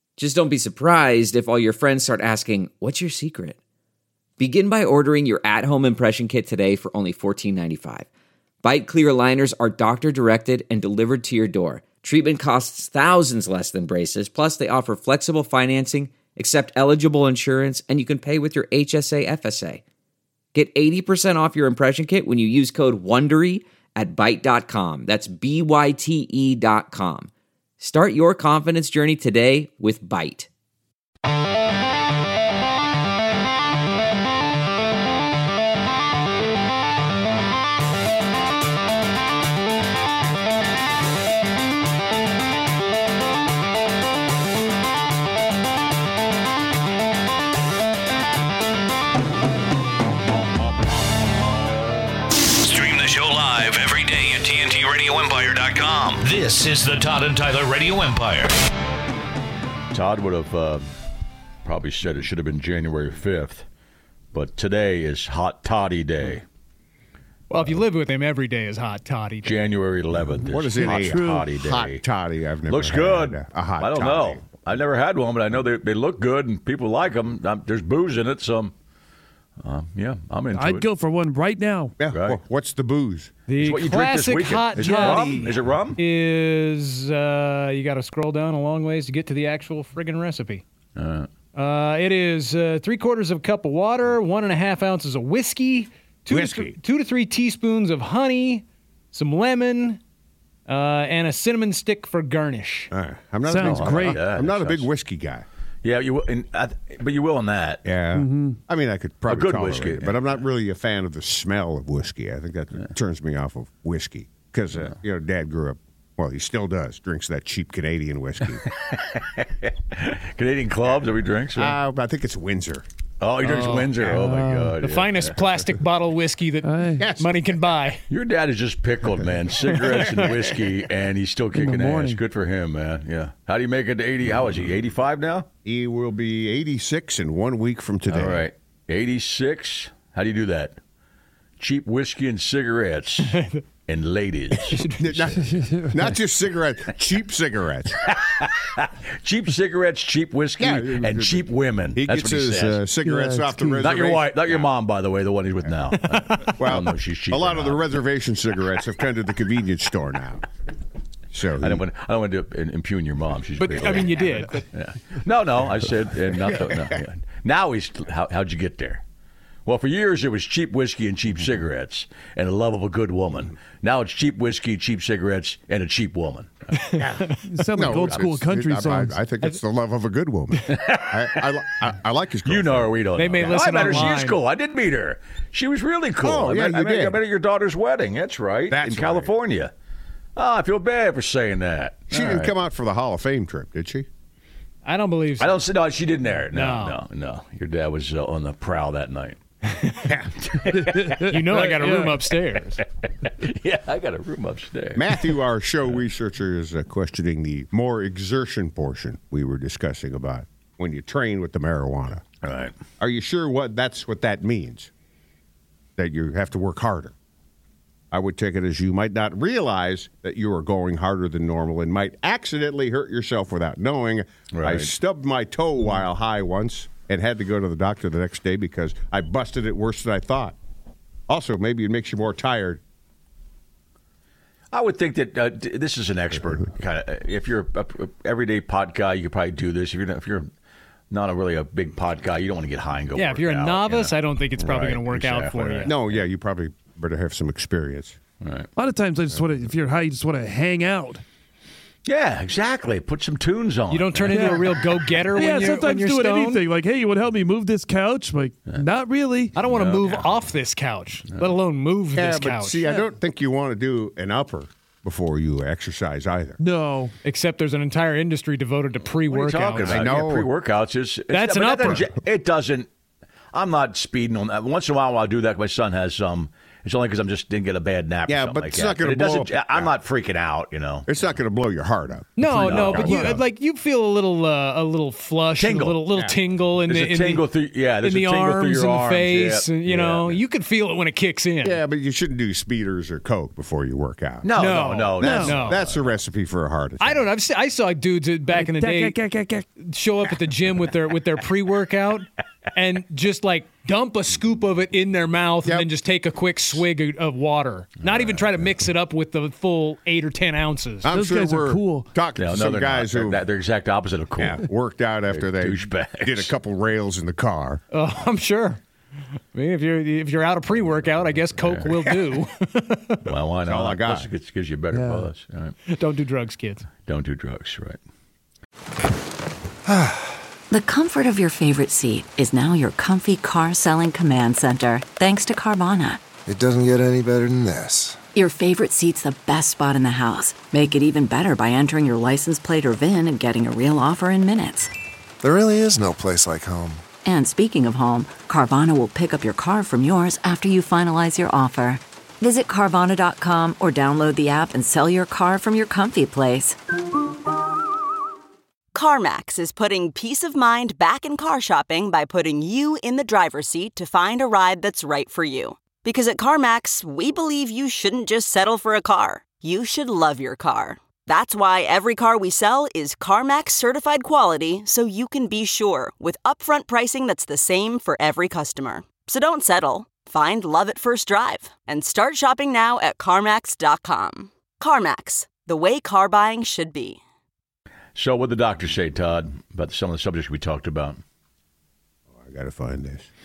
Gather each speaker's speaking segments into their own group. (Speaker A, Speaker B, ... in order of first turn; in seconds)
Speaker A: 0.2-3.6, 4.4-8.1, 8.6-19.8, 20.5-30.5
Speaker B: 52.6-58.6
Speaker C: 59.9-60.8, 61.6-63.6, 64.3-66.4, 69.4-72.0, 72.7-78.7, 79.6-80.9, 82.1-82.4, 83.6-86.0, 91.0-91.3, 103.6-104.9, 105.8-107.8, 109.3-110.2, 118.8-121.8, 123.2-125.4, 128.1-135.5, 138.1-140.8, 141.6-143.3, 143.8-144.8, 148.1-152.9, 153.8-157.8, 161.6-169.0, 169.7-176.9, 177.8-178.3, 180.7-181.3, 182.4-189.7, 190.3-192.5, 195.4-199.4, 200.4-202.3, 203.2-205.1, 212.4-212.7, 224.5-224.9, 234.7-240.5, 241.1-246.2, 248.4-248.7, 252.1-254.5, 259.6-260.5, 269.2-272.9, 273.5-281.3, 282.5-283.3, 285.6-286.1, 286.8-290.4, 294.4-296.1, 312.4-314.6, 315.3-316.5, 321.3-322.0, 323.2-325.7, 327.0-328.0, 388.1-391.2
Speaker D: 67.5-69.6, 83.5-90.6, 91.5-100.0, 100.7-102.9, 123.4-128.0, 129.7-130.5, 143.2-143.6, 144.6-145.6, 155.9-156.6, 163.6-164.6, 176.7-177.4, 183.1-184.4, 194.8-195.6, 196.5-197.0, 199.7-200.1, 201.3-202.8, 243.1-245.9, 253.9-256.6, 259.5-262.8, 267.2-270.1, 271.3-272.1, 282.4-287.5, 288.0-291.8, 294.5-295.8, 297.0-299.2, 299.8-311.2, 317.9-318.8, 319.5-323.2, 325.9-326.9
Speaker E: 70.4-74.4, 82.0-83.3, 96.3-96.8, 102.9-105.5, 107.8-118.6, 121.5-122.8, 127.0-127.4, 135.6-138.4, 144.7-148.0, 150.6-154.7, 156.6-160.4, 161.3-161.8, 166.5-167.0, 177.0-183.6, 186.2-187.2, 188.7-189.3, 192.1-194.1, 204.9-212.2, 213.0-214.9, 216.0-217.1, 218.1-230.6, 231.3-232.8, 245.8-248.2, 262.1-266.6, 269.8-270.5, 278.3-279.9, 281.1-283.4, 291.6-294.6, 295.2-297.2, 311.0-313.4, 314.4-317.8, 323.6-324.3, 392.3-393.3
Speaker F: 70.7-71.4, 80.5-81.9, 84.8-85.3, 103.5-104.2, 108.1-108.6, 124.1-124.7, 126.6-127.1, 131.5-132.2, 145.5-145.9, 153.0-153.9, 177.5-179.2, 200.8-202.1, 248.8-251.2, 254.3-254.7, 255.3-259.6, 262.8-263.1, 266.6-267.1, 283.0-283.3, 295.2-295.6, 298.5-299.6, 311.1-312.1, 324.9-325.3
Speaker G: 329.9-330.2, 336.4-338.2, 345.4-347.0
Speaker H: 330.7-336.2, 338.3-344.9, 347.2-356.8
Speaker I: 358.9-387.2